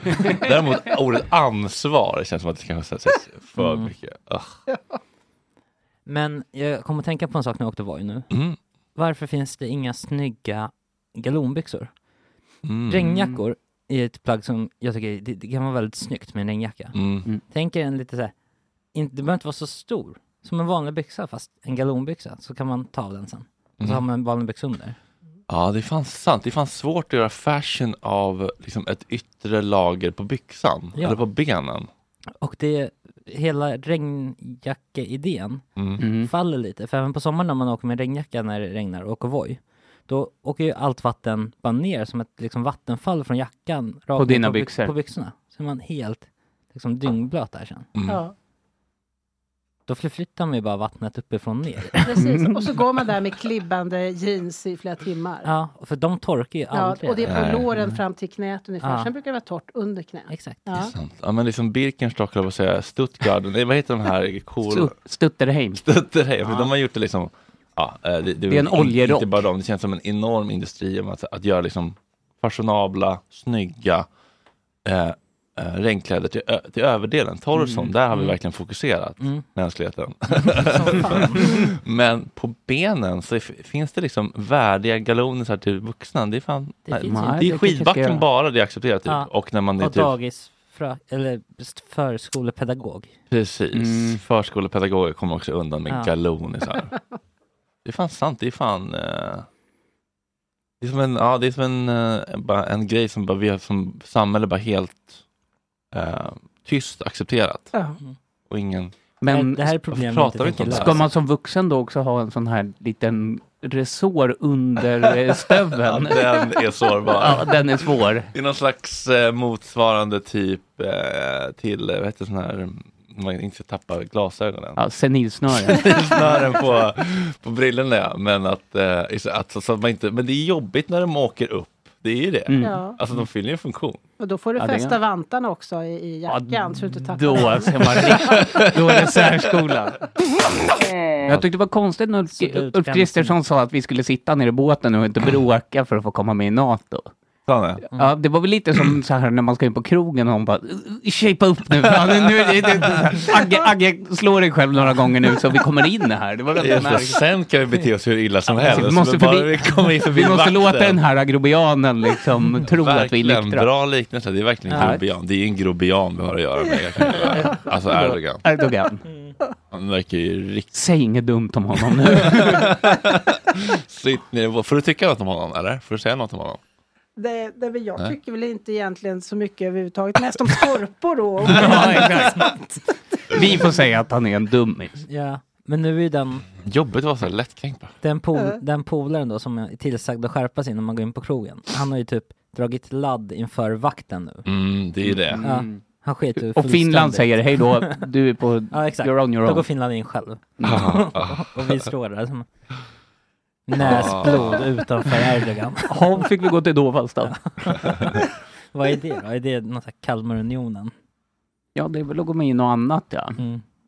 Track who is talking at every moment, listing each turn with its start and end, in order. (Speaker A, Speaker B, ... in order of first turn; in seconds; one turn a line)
Speaker A: 0.2-4.6
Speaker B: 3.6-3.9
Speaker C: 4.7-5.0
Speaker B: 6.0-8.3
Speaker A: 8.3-8.6
Speaker B: 8.9-11.9
Speaker A: 12.6-13.1
Speaker B: 12.9-18.3
Speaker A: 16.9-17.3
Speaker B: 18.9-25.0
Speaker A: 25.5-31.9
Speaker B: 30.9-31.2
Speaker B: 32.4-47.9
Speaker A: 35.8-36.0
Speaker D: 36.0-36.3
Speaker D: 44.2-44.9
Speaker A: 47.9-48.2
Speaker C: 48.1-48.3
Speaker B: 49.9-52.0
Speaker C: 52.0-55.5
Speaker D: 52.1-52.6
Speaker B: 55.4-57.4
Speaker C: 56.7-60.9
Speaker A: 57.2-57.9
Speaker B: 58.8-59.1
Speaker B: 60.3-60.6
Speaker A: 60.8-64.9
Speaker D: 64.6-65.8
Speaker A: 65.8-74.1
Speaker D: 66.4-66.7
Speaker D: 68.5-69.4
Speaker A: 74.8-90.1
Speaker D: 77.5-77.9
Speaker B: 79.2-79.5
Speaker B: 80.5-81.4
Speaker C: 80.8-81.7
Speaker B: 86.9-87.5
Speaker D: 87.0-88.2
Speaker B: 89.1-93.1
Speaker A: 93.3-96.9
Speaker D: 93.7-94.2
Speaker A: 97.8-99.5
Speaker A: 100.8-105.1
Speaker A: 105.9-107.7
Speaker C: 107.7-108.0
Speaker A: 108.5-109.0
Speaker D: 109.2-109.7
Speaker B: 109.3-111.0
Speaker A: 109.9-111.1
Speaker D: 110.7-116.6
Speaker A: 115.8-117.6
Speaker D: 117.2-118.3
Speaker A: 118.3-124.8
Speaker D: 124.8-126.3
Speaker A: 125.5-134.0
Speaker D: 132.5-133.3
Speaker C: 132.6-133.0
Speaker C: 134.2-138.5
Speaker D: 134.6-135.0
Speaker D: 136.3-140.1
Speaker A: 138.1-139.7
Speaker D: 141.3-147.1
Speaker B: 142.3-143.3
Speaker A: 147.5-147.8
Speaker D: 147.9-157.2
Speaker A: 152.4-153.0
Speaker A: 156.6-161.0
Speaker D: 158.5-163.7
Speaker A: 162.7-168.4
Speaker B: 164.7-165.0
Speaker D: 164.7-165.0
Speaker C: 166.8-167.4
Speaker D: 167.4-169.0
Speaker B: 169.1-169.3
Speaker A: 169.7-170.7
Speaker D: 170.7-172.7
Speaker A: 171.9-176.6
Speaker C: 177.2-182.8
Speaker D: 181.5-182.5
Speaker A: 181.5-181.8
Speaker D: 183.3-185.0
Speaker B: 185.1-186.4
Speaker A: 186.6-187.9
Speaker B: 188.0-194.5
Speaker A: 194.4-195.5
Speaker D: 195.1-195.8
Speaker B: 195.4-197.9
Speaker D: 196.5-199.7
Speaker B: 198.7-202.5
Speaker D: 200.6-200.9
Speaker A: 200.6-201.8
Speaker B: 203.7-206.0
Speaker A: 203.8-204.7
Speaker D: 205.8-207.5
Speaker B: 207.6-208.2
Speaker B: 208.7-210.9
Speaker D: 211.8-213.4
Speaker B: 213.4-213.6